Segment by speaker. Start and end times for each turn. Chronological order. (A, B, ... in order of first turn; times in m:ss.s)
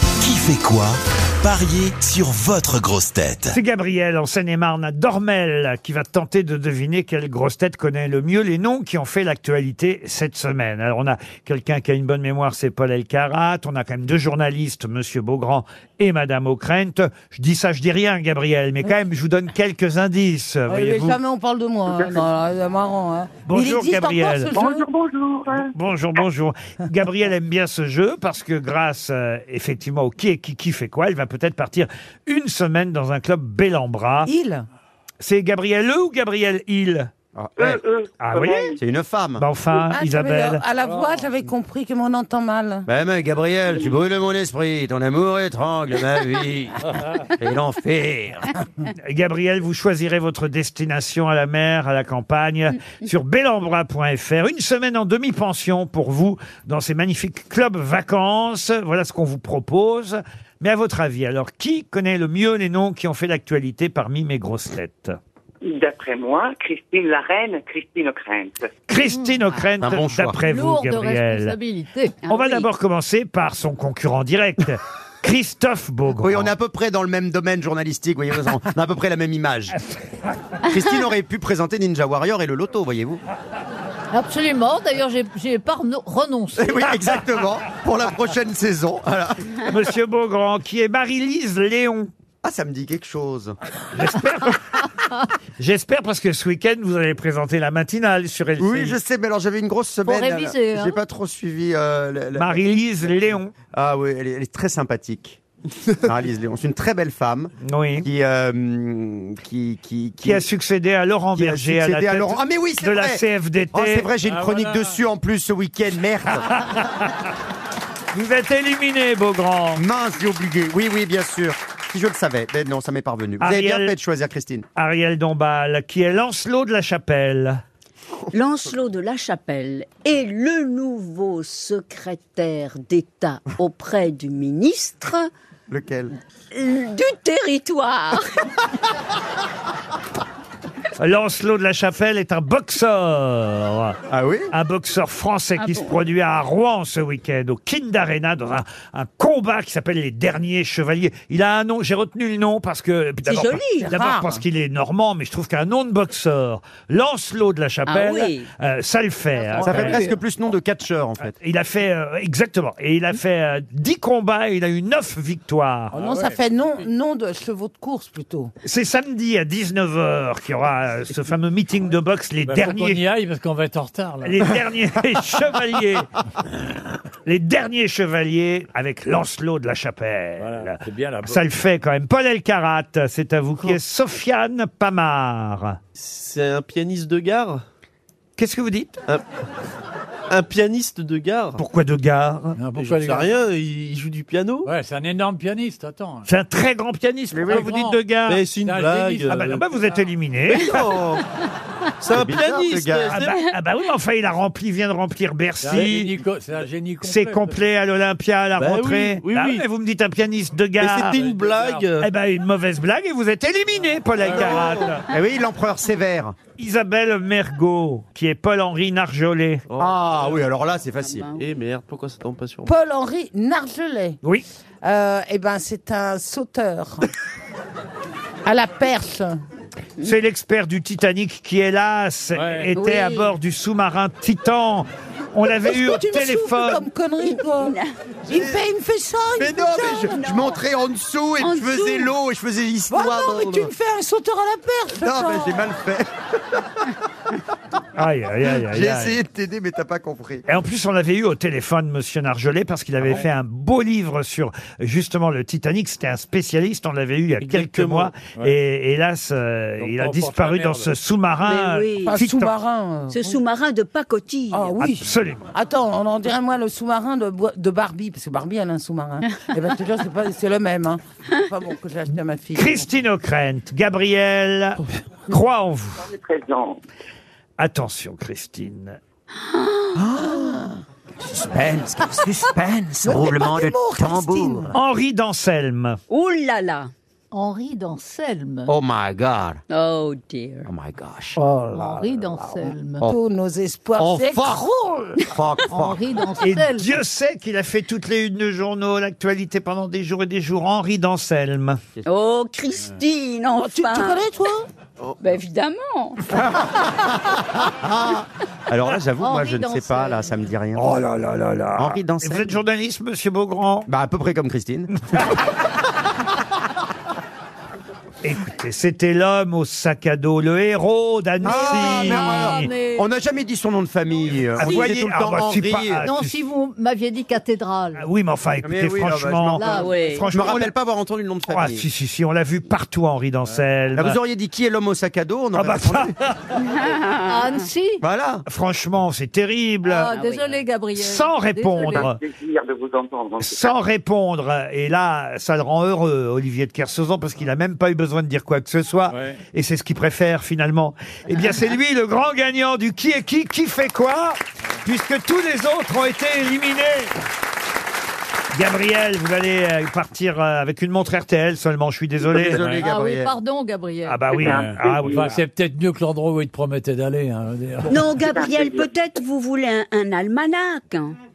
0:00.2-0:03.6 A
0:03.5-0:21.2 B
0:20.7-0:24.9 C
0:21.9-0:22.2 D
0:23.5-0:24.6 B
0:24.5-0:25.7 D
0:25.5-0:34.3 B
0:34.2-0:34.7 C
0:35.2-0:37.1 B
0:37.4-0:37.7 E
0:37.6-0:38.8 D
0:37.6-0:38.8 B
0:38.8-0:39.4 E
0:39.4-0:40.6 B
0:39.8-0:42.9 C
0:42.9-0:48.5 E
0:49.0-1:05.2 B
1:05.6-1:08.7 D
1:08.9-1:11.6 B
1:09.0-1:09.4 F
1:09.8-1:10.4 E
1:10.4-1:12.3 F
1:12.3-1:12.7 G
1:12.3-1:16.5 B
1:16.2-1:19.8 E
1:20.6-1:23.2 E
1:24.1-1:26.9 F
1:26.6-1:29.6 E
1:29.7-1:32.1 B
1:32.4-1:33.6 E
1:33.9-1:34.9 B
1:35.6-1:39.0 B
1:38.6-1:42.6 E
1:40.0-1:41.0 F
1:42.4-1:43.5 B
1:43.7-1:45.4 E
1:45.9-1:50.5 E
1:47.6-1:48.1 B
1:50.2-1:54.1 B
1:51.3-1:56.5 E
1:54.2-1:54.9 H
1:56.3-1:57.3 B
1:58.1-1:59.8 B
1:59.8-2:04.7 E
2:03.4-2:04.0 B
2:04.8-2:07.6 B
2:08.3-2:15.2 G
2:09.4-2:11.3 C
2:14.0-2:15.0 C
2:15.7-2:16.1 E
2:16.6-2:17.7 G
2:17.2-2:17.9 C
2:21.0-2:24.0 B
2:24.1-2:24.5 E
2:24.5-2:40.1 B
2:25.6-2:25.9 G
2:33.3-2:33.9 G
2:33.8-2:34.4 C
2:37.9-2:38.4 G
2:39.6-2:41.4 E
2:41.4-2:46.0 B
2:45.9-2:46.4 H
2:45.9-2:48.5 C
2:48.6-2:53.0 B
2:52.4-2:54.3 H
2:54.2-2:56.2 B
2:57.2-3:05.8 B
3:00.4-3:01.4 H
3:06.0-3:07.6 I
3:08.4-3:09.0 B
3:10.3-3:11.6 I
3:11.6-3:12.6 B
3:12.6-3:13.2 H
3:12.7-3:14.7 I
3:14.7-3:16.3 H
3:16.3-3:18.5 B
3:17.3-3:17.7 E
3:17.5-3:18.0 H
3:18.3-3:19.7 I
3:18.6-3:19.4 H
3:19.3-3:20.7 B
3:20.5-3:21.2 I
3:20.6-3:21.2 E
3:22.0-3:23.4 I
3:22.1-3:23.3 E
3:23.1-3:26.1 B
3:25.6-3:27.6 H
3:27.0-3:31.2 B
3:28.6-3:29.6 I
3:30.8-3:32.1 I
3:31.2-3:31.9 H
3:32.0-3:35.1 B
3:34.2-3:36.4 E
3:36.6-3:39.6 B
3:39.7-3:40.3 I
3:39.8-3:41.3 E
3:41.3-3:42.8 I
3:42.6-3:44.2 C
3:44.8-3:47.1 C
3:48.4-3:49.4 C
3:50.0-3:56.9 B
3:52.4-3:52.7 H
3:52.7-3:53.3 G
3:55.6-4:00.1 C
3:57.2-3:57.8 G
3:58.3-3:58.6 E
3:59.4-4:03.7 E
3:59.7-4:00.6 G
4:01.4-4:02.1 G
4:02.9-4:05.6 C
4:05.0-4:06.8 E
4:08.0-4:09.2 B
4:08.4-4:10.4 E
4:10.5-4:22.5 B
4:17.4-4:18.2 I
4:19.8-4:20.9 H
4:21.4-4:22.2 G
4:22.0-4:23.4 C
4:23.1-4:24.7 G
4:24.5-4:32.8 C
4:24.8-4:25.4 B
4:32.6-4:36.1 B
4:36.0-4:36.8 D
4:37.6-4:39.0 B
4:40.0-4:44.8 E
4:43.0-4:44.8 C
4:44.7-4:46.0 B
4:46.2-4:46.9 C
4:47.3-4:48.7 F
4:48.7-4:49.6 E
4:49.8-4:50.4 G
4:50.4-4:50.7 C
4:50.7-4:51.4 E
4:51.4-4:53.0 F
4:51.5-4:51.8 C
4:52.4-4:55.3 C
4:54.0-4:54.6 E
4:55.3-4:56.0 E
4:55.7-4:57.0 F
4:56.4-5:01.8 B
5:02.2-5:04.7 C
5:03.6-5:04.1 G
5:05.2-5:05.7 G
5:05.6-5:06.1 C
5:06.6-5:07.1 E
5:07.6-5:10.9 E
5:09.2-5:10.4 F
5:10.8-5:13.9 B
5:11.8-5:12.6 E
5:13.9-5:14.9 E
5:18.2-5:22.7 B
5:21.4-5:26.1 E
5:21.4-5:23.1 F
5:24.6-5:26.4 B
5:26.0-5:28.1 F
5:28.0-5:30.7 B
5:28.6-5:31.9 E
5:29.6-5:30.4 F
5:29.7-5:30.0 C
5:31.5-5:34.2 B
5:33.9-5:36.2 E
5:35.6-5:36.7 B
5:36.9-5:38.0 F
5:38.0-5:38.4 E
5:38.5-5:40.2 B
5:39.8-5:42.1 F
5:40.1-5:40.5 C
5:41.0-5:42.2 B
5:41.8-5:43.7 D
5:43.4-5:57.1 B
5:49.1-5:49.4 H
5:58.5-6:02.6 B
6:02.3-6:03.3 E
6:02.6-6:02.8 H
6:02.8-6:04.5 F
6:04.1-6:05.3 B
6:04.4-6:05.4 D
6:04.6-6:07.9 H
6:07.9-6:08.2 C
6:08.0-6:11.1 G
6:08.2-6:09.1 D
6:09.7-6:10.7 C